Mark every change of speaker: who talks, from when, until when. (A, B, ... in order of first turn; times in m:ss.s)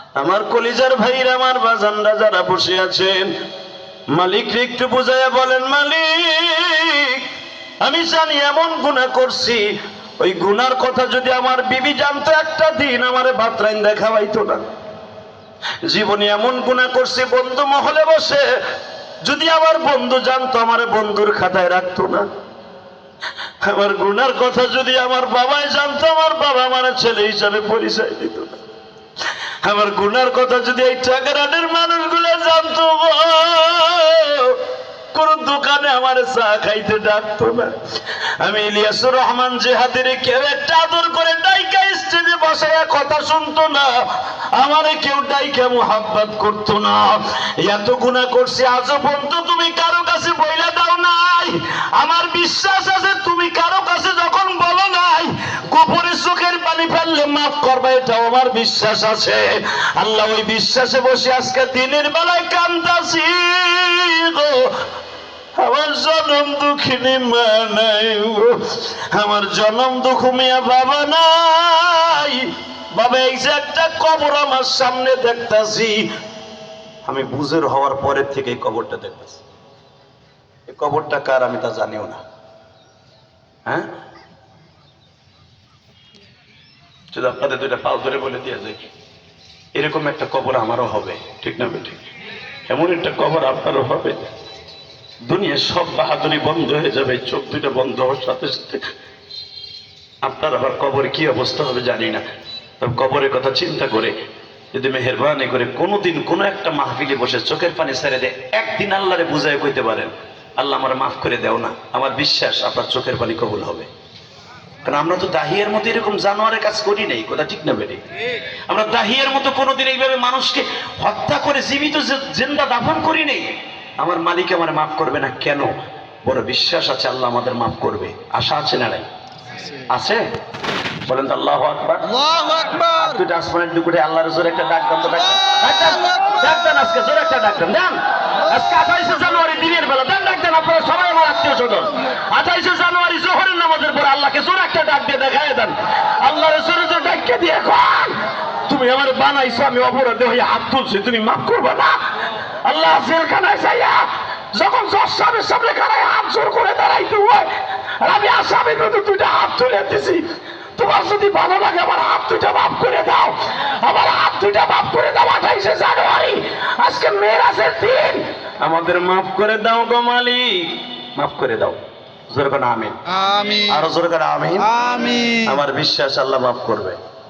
0:00.2-0:03.3 A
0:04.1-0:07.3 A
0:07.8-0:09.6 A
0:10.2-0:14.6 A
0:15.9-0:18.4 A
0:19.2-0:22.3 A
0:23.6-0:28.6 A
0:29.6-0:34.6 A
0:35.1-0:37.7 A
0:38.4-1:04.8 A
1:05.6-1:16.1 A
1:17.0-1:19.4 A
1:20.7-1:22.2 A
1:27.1-1:28.8 A
1:29.8-1:32.0 A
1:32.7-1:34.2 A
1:35.2-1:38.8 A
1:40.2-1:42.2 A
1:42.8-1:44.1 A
1:44.7-1:53.9 A
1:54.8-1:58.0 A
1:58.7-2:05.7 A
2:06.2-2:09.1 A
2:09.9-2:10.2 A
2:11.0-2:12.1 A
2:12.1-2:13.1 B
2:12.9-2:51.8 A
2:52.3-2:53.0 A
2:53.1-2:53.9 B
2:53.6-2:54.7 A
2:54.6-2:55.5 B
2:55.4-2:57.0 A